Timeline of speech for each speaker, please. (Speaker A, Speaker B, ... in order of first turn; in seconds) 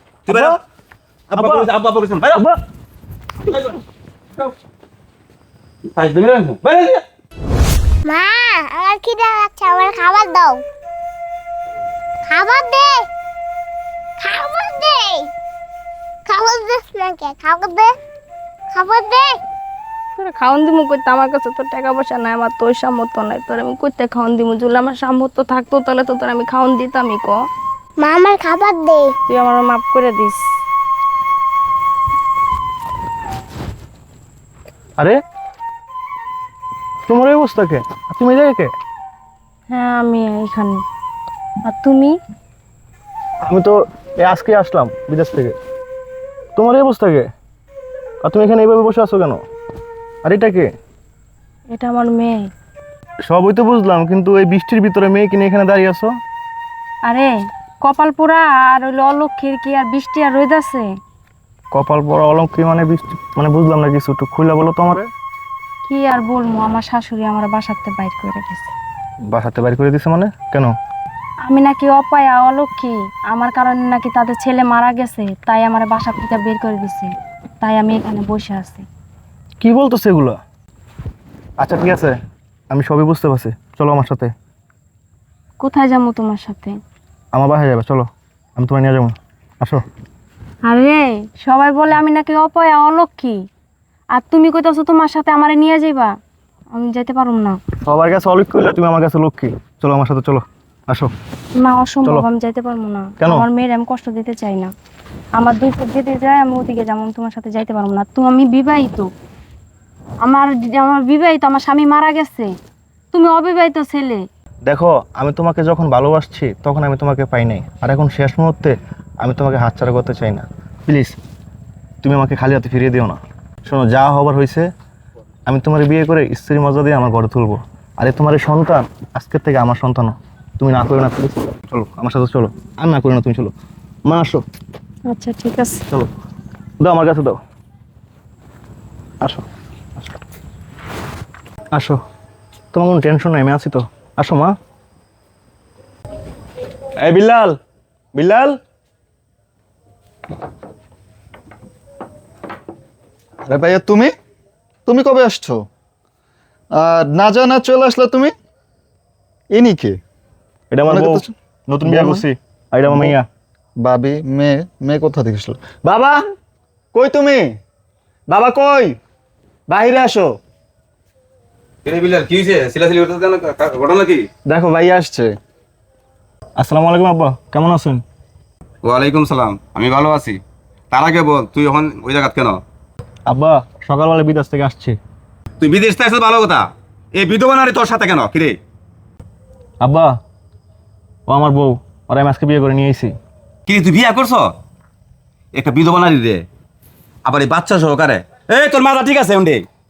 Speaker A: 0.3-0.6, 1.3-2.4, 3.5-3.8, 5.9-7.0, 171.8-174.3, 178.8-180.4, 180.9-182.6, 185.6-188.6, 193.7-194.5, 195.5-196.4, 197.2-199.7
Speaker B: 0.3-0.6, 1.3-1.7, 37.1-38.7, 43.4-45.5, 46.5-47.3, 48.2-49.4, 50.2-50.7, 53.3-56.1, 61.7-65.1, 69.3-70.7, 79.6-80.4, 81.6-82.1, 82.7-84.3, 87.3-89.8, 97.8-101.1, 103.2-103.5, 114.7-121.2, 122.0-124.7, 125.5-133.5, 134.1-134.4, 136.8-137.4, 141.7-142.0, 142.7-144.5, 147.0-147.6, 148.1-148.6, 160.7-163.2, 176.6-178.0, 183.3-185.0, 189.8-190.2, 191.3-193.1
Speaker C: 8.1-10.6, 12.3-13.1, 14.2-15.3, 16.2-17.9, 18.7-19.4, 28.0-29.1
Speaker D: 20.2-27.4, 29.3-30.4, 39.7-40.8, 41.6-42.1, 51.7-52.5, 57.1-60.9, 65.8-68.7, 71.5-77.1, 77.6-78.8, 85.6-86.7, 90.7-93.4, 94.2-96.1, 96.7-97.6, 101.6-104.7, 105.4-109.1, 110.2-112.5, 113.1-114.2, 135.1-135.8
Speaker E: 153.4-154.1, 154.8-155.6, 156.7-158.3, 159.5-160.0, 160.9-161.3, 161.8-162.2, 162.9-163.2, 163.8-166.2, 166.9-167.5, 168.3-168.9, 169.7-170.4, 174.4-175.4